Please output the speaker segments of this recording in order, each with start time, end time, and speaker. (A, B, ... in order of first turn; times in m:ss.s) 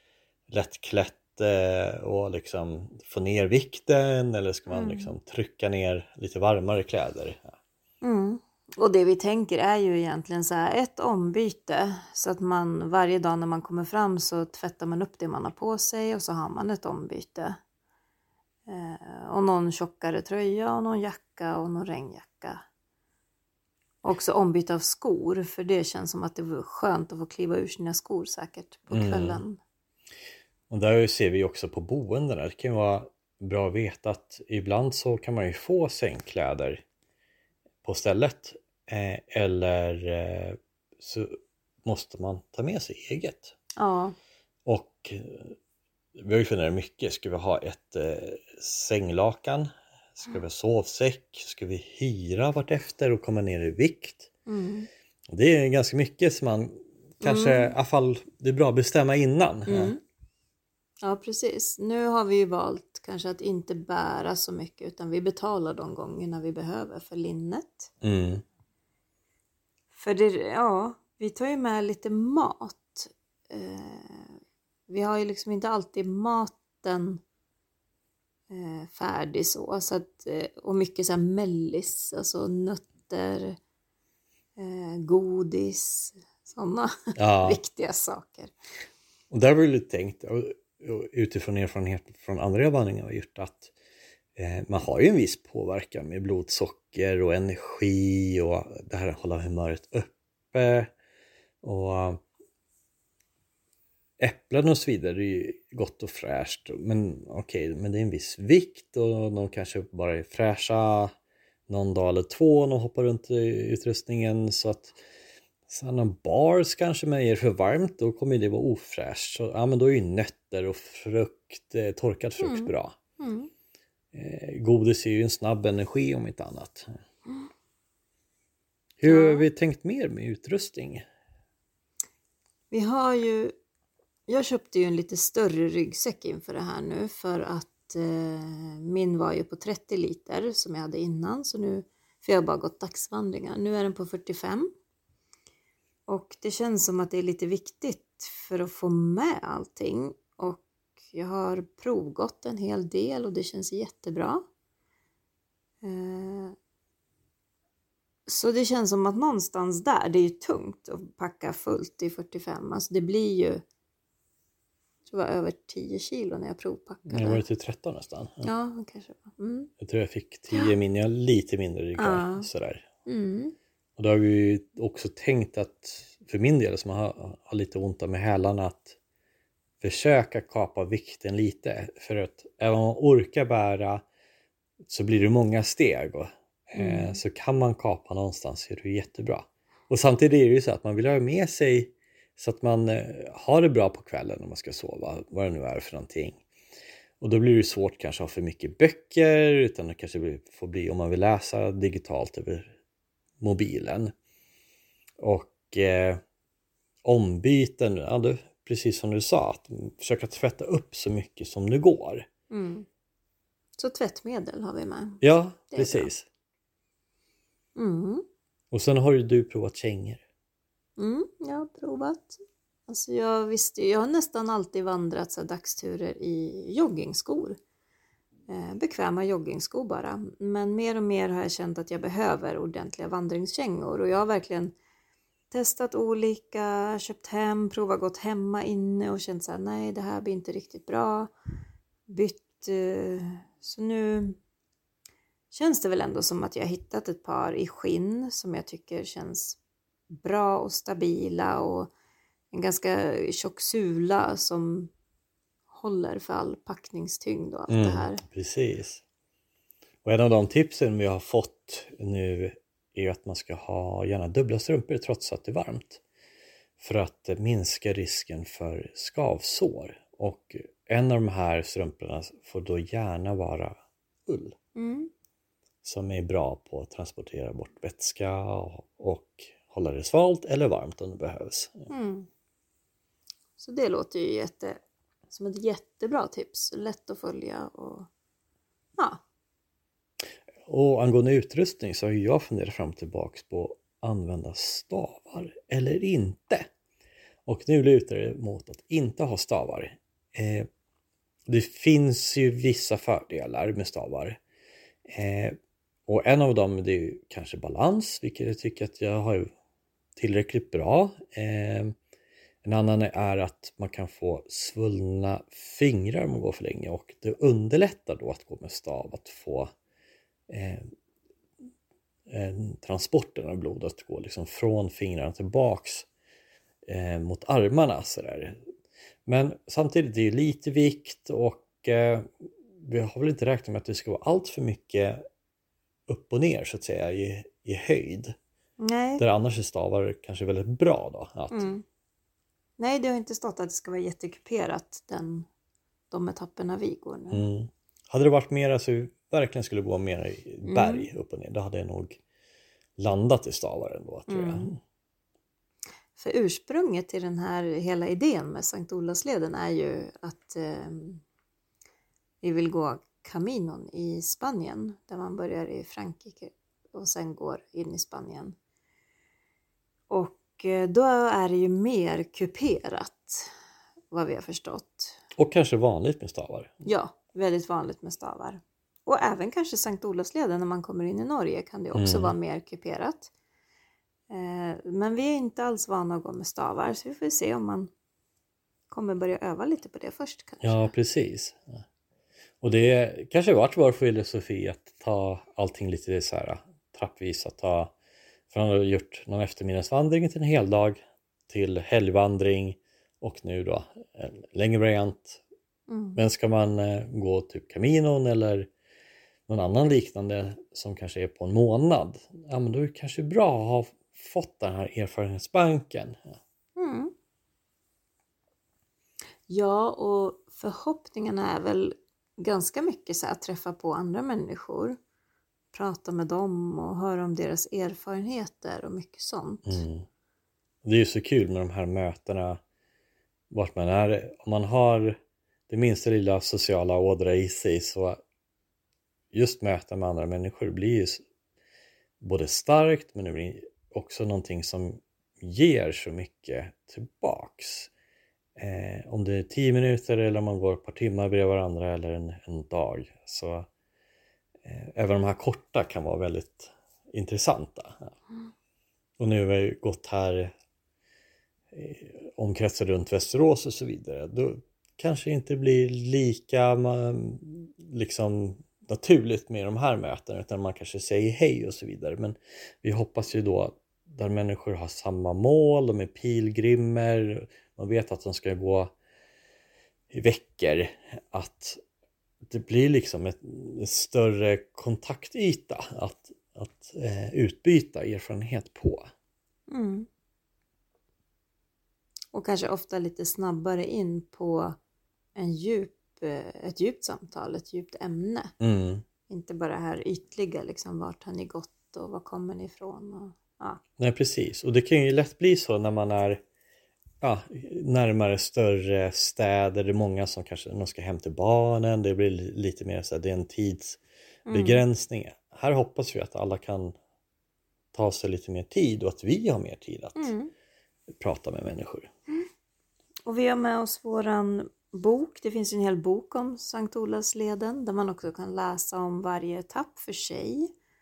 0:00.5-0:07.6 A
0:04.7-0:05.1 B
0:08.0-0:17.6 B
0:18.7-0:22.6 B
0:24.0-0:29.6 B
0:28.9-0:29.4 A
0:30.7-0:36.8 A
0:37.8-0:43.5 A
0:43.8-0:44.1 B
0:44.6-0:45.5 A
0:46.2-0:54.3 A
0:54.4-0:54.9 B
0:55.3-0:59.9 A
0:57.2-0:57.7 B
0:59.7-1:00.0 B
1:01.0-1:07.9 B
1:08.0-1:08.4 A
1:09.9-1:17.2 B
1:18.5-1:23.6 B
1:24.6-1:28.5 B
1:27.2-1:27.6 A
1:29.3-1:33.7 A
1:34.4-1:40.9 A
1:41.6-1:42.2 A
1:44.2-1:51.1 A
1:51.7-1:55.0 A
1:55.7-2:03.0 A
2:02.4-2:03.5 B
2:04.1-2:07.0 A
2:09.0-2:11.0 A
2:09.0-2:09.5 B
2:12.7-2:13.5 B
2:14.3-2:24.7 B
2:26.1-2:34.4 B
2:35.8-2:36.5 B
2:38.3-2:43.6 B
2:45.1-2:47.4 B
2:47.1-2:48.5 A
2:48.4-2:49.7 B
2:49.8-2:52.8 A
2:52.0-2:52.5 B
2:53.0-2:53.5 B
2:54.0-2:59.0 A
2:59.8-3:04.0 A
3:04.8-3:16.4 A
3:06.7-3:07.2 B
3:17.2-3:22.8 A
3:23.4-3:24.1 A
3:25.2-3:26.2 A
3:27.0-3:32.2 A
3:32.5-3:32.8 B
3:33.8-3:36.1 B
3:35.2-3:36.2 A
3:37.8-3:38.2 B
3:38.7-3:40.2 A
3:41.0-3:47.6 B
3:48.5-3:54.7 B
3:55.5-4:01.3 B
4:02.1-4:04.4 B
4:05.5-4:09.6 B
4:10.1-4:11.9 B
4:12.5-4:14.9 B
4:15.7-4:18.2 B
4:17.7-4:19.0 A
4:20.0-4:26.0 A
4:26.8-4:34.6 A
4:34.7-4:35.1 B
4:35.8-4:41.9 A
4:41.9-4:42.3 B
4:43.6-4:44.8 B
4:45.3-4:48.1 B
4:50.6-4:56.7 A
4:57.4-5:00.7 A
5:01.5-5:04.4 A
5:05.1-5:05.5 A
5:06.1-5:09.5 A
5:10.2-5:11.9 A
5:12.6-5:19.7 A
5:20.5-5:20.9 A
5:22.3-5:26.1 A
5:26.8-5:28.6 A
5:29.2-5:35.2 A
5:36.1-5:38.4 A
5:38.8-5:39.2 B
5:39.2-5:41.7 A
5:41.5-5:41.8 B
5:42.8-5:45.5 B
5:46.1-5:47.4 B
5:47.3-5:52.2 A
5:50.6-5:51.1 B
5:53.0-5:54.8 A
5:54.3-5:54.7 B
5:56.1-6:01.2 B
6:02.4-6:08.5 B
6:10.1-6:13.5 B
6:14.1-6:15.2 B
6:15.4-6:16.8 A
6:16.8-6:23.3 B
6:21.9-6:22.3 A
6:24.3-6:27.9 B
6:28.9-6:30.9 B
6:30.6-6:31.8 A
6:32.6-6:37.9 A
6:38.5-6:45.4 A
6:45.9-6:46.2 B
6:46.2-6:48.7 A
6:49.5-6:56.4 A
6:56.8-6:57.1 B
6:59.5-7:05.0 B
7:05.7-7:09.8 B
7:09.6-7:10.0 A
7:10.8-7:12.6 A
7:13.5-7:15.2 A
7:15.7-7:18.2 A
7:19.3-7:21.2 A
7:22.2-7:27.9 A
7:28.6-7:33.7 A
7:34.6-7:38.1 A
7:39.2-7:40.5 A
7:41.7-7:58.9 A
8:00.1-8:01.8 A
8:02.5-8:09.1 A
8:09.7-8:10.1 B
8:12.3-8:14.7 B
8:15.4-8:18.5 B
8:18.6-8:19.0 A
8:19.3-8:23.8 B
8:24.0-8:26.4 A
8:27.2-8:37.0 A
8:34.5-8:34.8 B
8:37.9-8:40.3 A
8:40.2-8:40.5 B
8:41.2-8:42.1 A
8:43.2-8:50.7 B